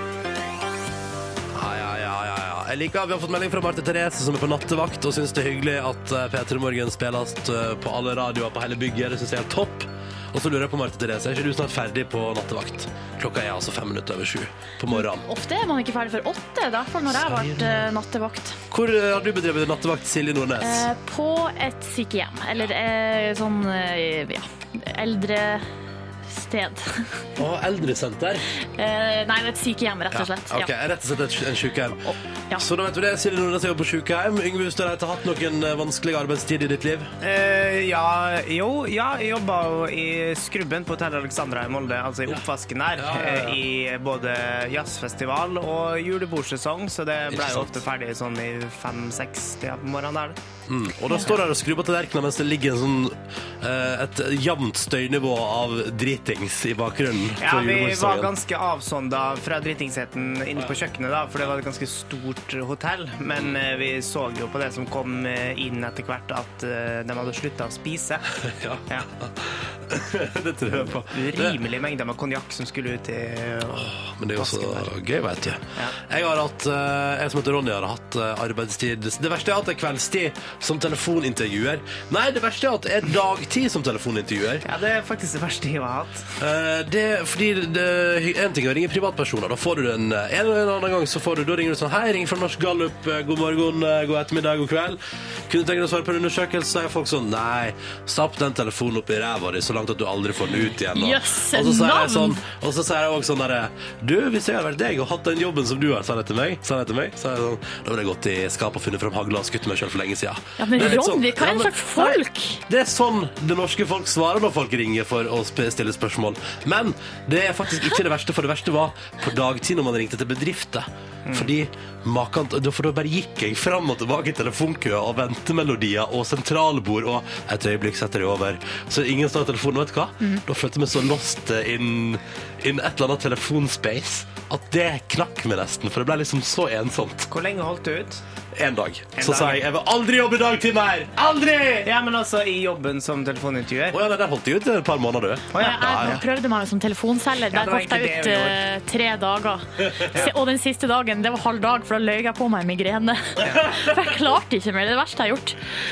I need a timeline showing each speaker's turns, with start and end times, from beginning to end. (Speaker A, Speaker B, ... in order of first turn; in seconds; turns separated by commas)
Speaker A: 1.5-15.3, Speaker B: 14.9-18.6, Speaker A: 17.1-17.9, Speaker A: 18.7-20.9, Speaker B: 20.6-25.7, Speaker B: 26.3-27.3, Speaker A: 27.4-28.5, Speaker B: 28.6-30.7, Speaker A: 30.1-37.1, Speaker B: 32.0-32.7, Speaker C: 37.2-50.4, Speaker A: 43.0-43.6, Speaker A: 47.3-47.8, Speaker A: 50.7-58.3, Speaker C: 57.4-68.3, Speaker A: 68.4-71.6, Speaker C: 70.8-74.9, Speaker A: 73.7-84.7, Speaker C: 84.7-86.3, Speaker A: 86.4-137.3, Speaker B: 100.9-102.4, Speaker B: 110.6-112.6, Speaker C: 121.3-121.5, Speaker C: 137.3-138.2, Speaker A: 138.6-141.9, Speaker C: 139.2-139.6, Speaker C: 141.8-144.0, Speaker A: 143.9-146.2, Speaker C: 145.5-146.2, Speaker B: 145.6-155.6, Speaker C: 147.5-148.6, Speaker A: 149.8-150.2, Speaker A: 153.4-153.9